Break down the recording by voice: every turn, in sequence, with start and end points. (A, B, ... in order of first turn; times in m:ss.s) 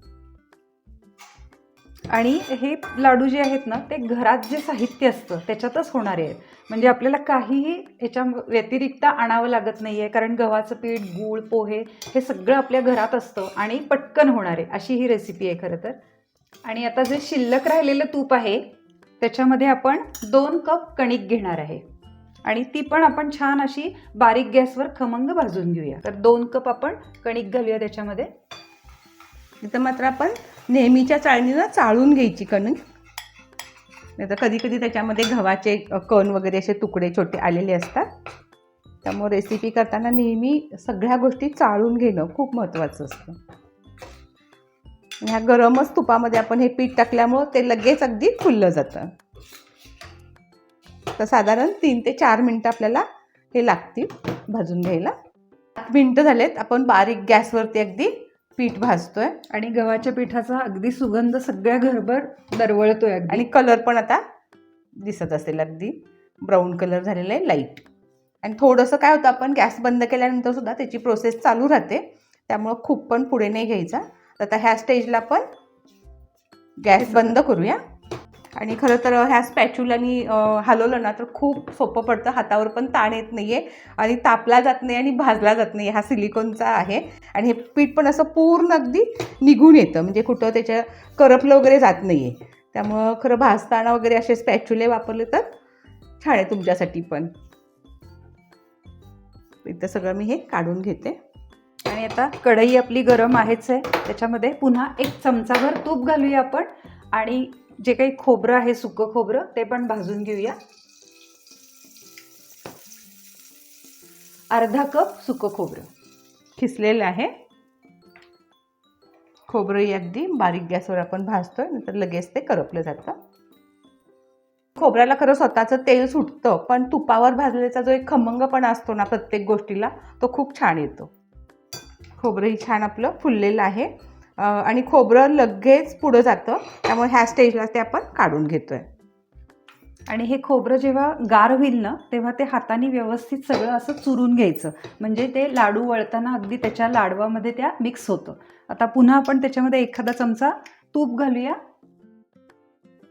0:02.1-0:16.0 A
0:16.6-0:18.6 A
0:19.2-0:21.8 A
0:22.4-0:28.3 A
0:29.6-0:32.8 B
0:34.2-0:38.1 B
0:39.0-0:43.4 B
0:45.2-0:49.2 B
0:51.2-0:55.2 B
0:55.8-0:59.4 B
0:59.5-1:03.5 A
1:03.3-1:04.2 B
1:05.0-1:07.8 B
1:08.4-1:15.4 B
1:16.8-1:17.8 B
1:18.5-1:35.5 B
1:36.2-1:37.3 B
1:39.6-1:41.2 B
1:41.9-1:50.6 A
1:54.5-1:55.9 A
1:56.6-1:57.3 B
1:59.5-2:03.2 B
2:04.8-2:11.1 B
2:12.2-2:18.9 B
2:20.1-2:31.6 A